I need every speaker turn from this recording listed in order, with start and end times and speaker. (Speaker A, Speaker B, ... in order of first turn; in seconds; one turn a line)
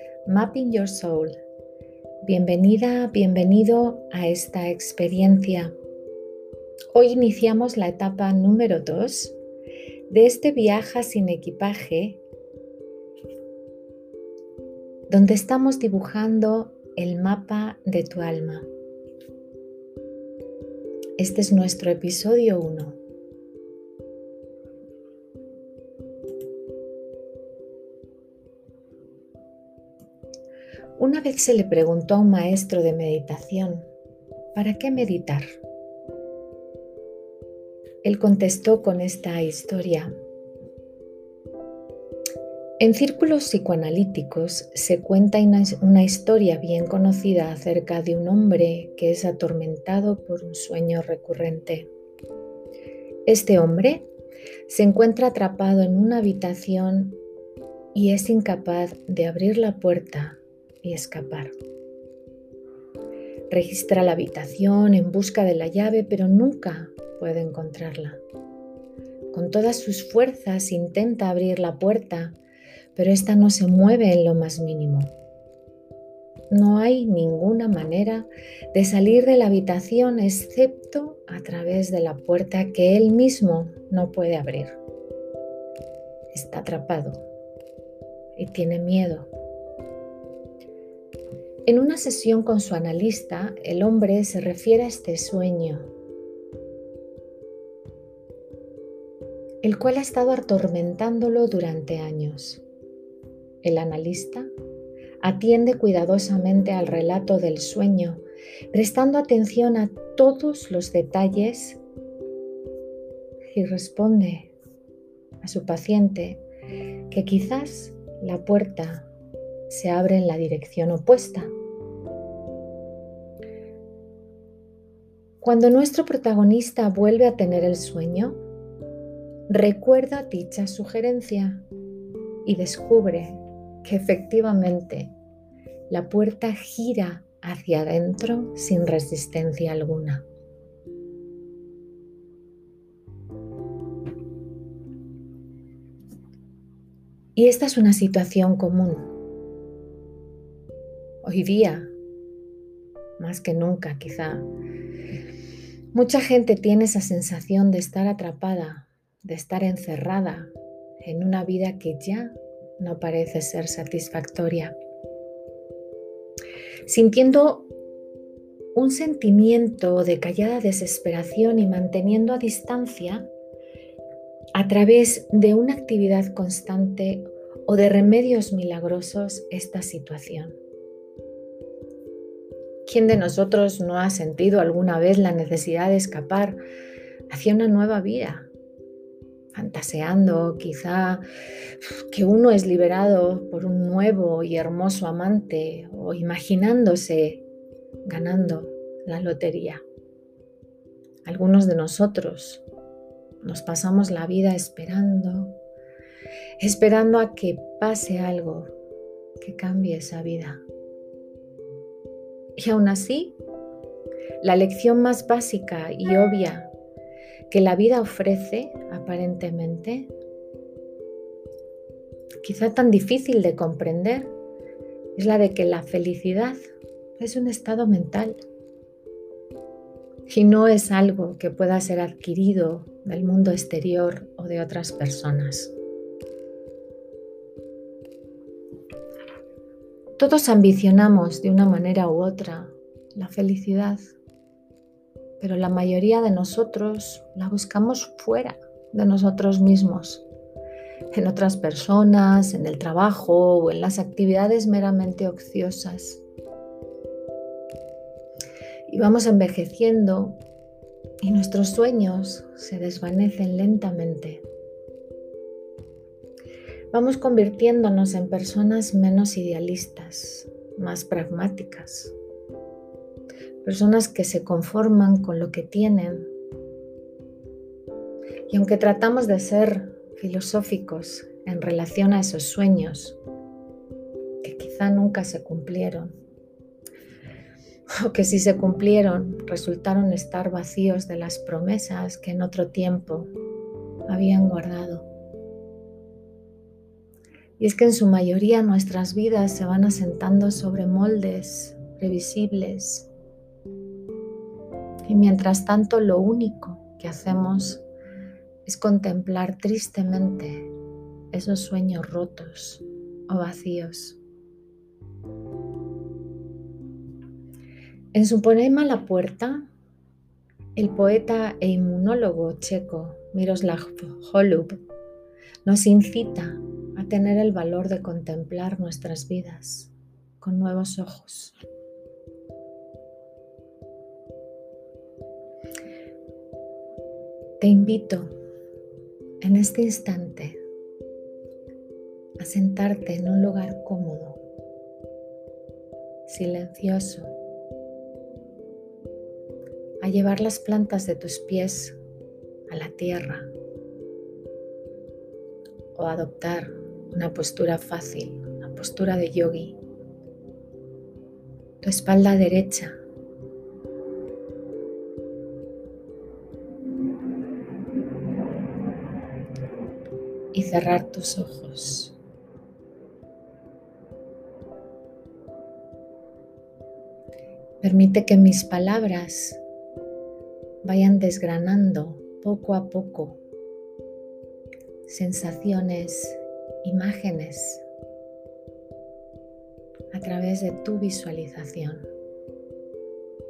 Speaker A: 0.2-1.4
Speaker A: 2.2-5.7
Speaker A: 6.9-9.4
Speaker A: 10.1-12.2
Speaker A: 15.1-18.7
Speaker A: 21.2-23.0
Speaker A: 31.0-33.9
Speaker A: 34.5-35.5
Speaker A: 38.0-40.1
Speaker A: 42.8-51.9
Speaker A: 53.3-54.1
Speaker A: 54.7-57.2
Speaker A: 57.9-61.5
Speaker A: 63.5-68.2
Speaker A: 69.3-72.4
Speaker A: 72.9-75.1
Speaker A: 76.5-84.8
Speaker A: 86.3-87.2
Speaker A: 88.3-89.3
Speaker A: 91.7-95.9
Speaker A: 99.6-102.6
Speaker A: 103.6-104.5
Speaker A: 105.2-111.8
Speaker A: 113.5-114.5
Speaker A: 115.4-116.4
Speaker A: 117.1-119.1
Speaker A: 119.7-121.5
Speaker A: 125.4-128.4
Speaker A: 129.5-131.7
Speaker A: 132.4-135.1
Speaker A: 135.9-140.2
Speaker A: 147.3-149.1
Speaker A: 151.2-151.9
Speaker A: 153.2-154.5
Speaker A: 155.9-164.8
Speaker A: 166.9-167.7
Speaker A: 168.7-173.3
Speaker A: 174.5-180.6
Speaker A: 182.8-186.6
Speaker A: 187.3-188.5
Speaker A: 189.5-191.2
Speaker A: 192.1-197.4
Speaker A: 198.0-199.8
Speaker A: 201.2-202.6
Speaker A: 203.4-205.6
Speaker A: 206.6-208.7
Speaker A: 209.4-210.6
Speaker A: 212.6-213.4
Speaker A: 214.4-216.7
Speaker A: 217.5-220.1
Speaker A: 222.4-224.3
Speaker A: 225.2-226.6
Speaker A: 227.2-228.4
Speaker A: 230.3-235.7
Speaker A: 240.2-244.1
Speaker A: 245.4-250.2
Speaker A: 251.1-256.2
Speaker A: 258.9-260.4
Speaker A: 261.2-264.4
Speaker A: 266.9-272.1
Speaker A: 273.6-276.3
Speaker A: 278.5-283.2
Speaker A: 284.4-286.1
Speaker A: 288.0-293.3
Speaker A: 294.1-295.1
Speaker A: 297.6-303.1
Speaker A: 305.0-307.8
Speaker A: 308.6-310.7
Speaker A: 311.3-314.2
Speaker A: 318.1-319.7
Speaker A: 320.8-324.8
Speaker A: 325.6-331.6
Speaker A: 337.6-338.3
Speaker A: 339.4-340.6
Speaker A: 342.4-344.4
Speaker A: 346.2-347.3
Speaker A: 350.0-352.0
Speaker A: 352.7-353.5
Speaker A: 355.9-359.8
Speaker A: 361.8-363.0
Speaker A: 370.5-372.1
Speaker A: 377.8-379.6
Speaker A: 380.8-383.4
Speaker A: 385.1-387.8
Speaker A: 390.1-392.1